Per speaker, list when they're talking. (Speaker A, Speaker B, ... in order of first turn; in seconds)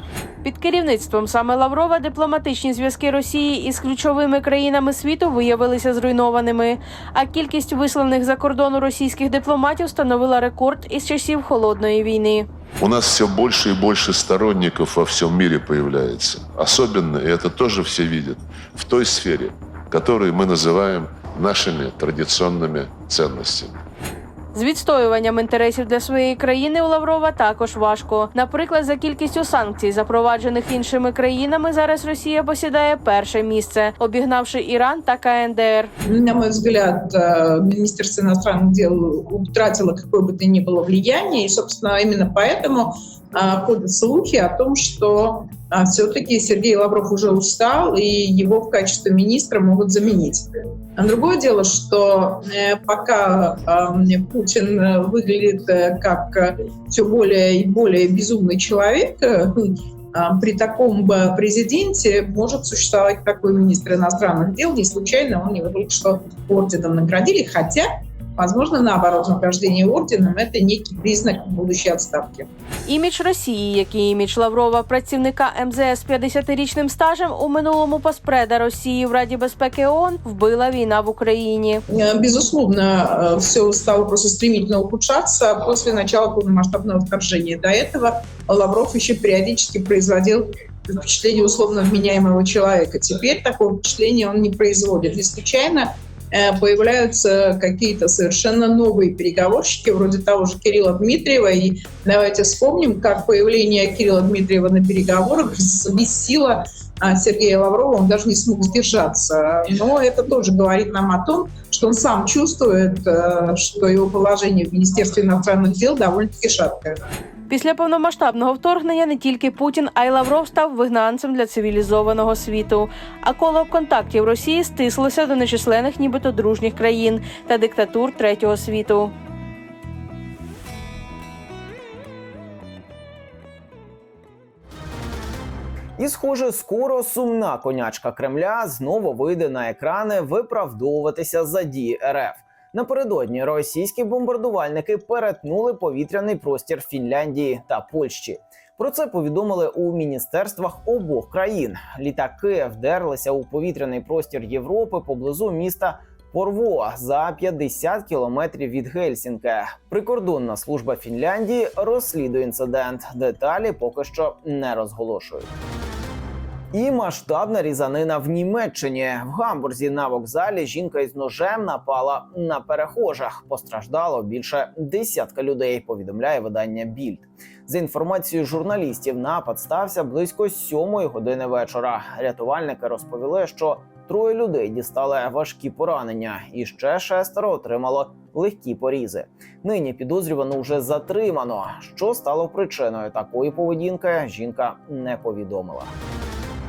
Speaker A: 0.4-12.5, 24.5-35.9, 72.9-81.8, 117.5-129.1
Speaker B: 12.8-23.8
Speaker C: 36.0-72.5, 81.9-117.0
Speaker D: 136.0-165.5, 166.7-195.9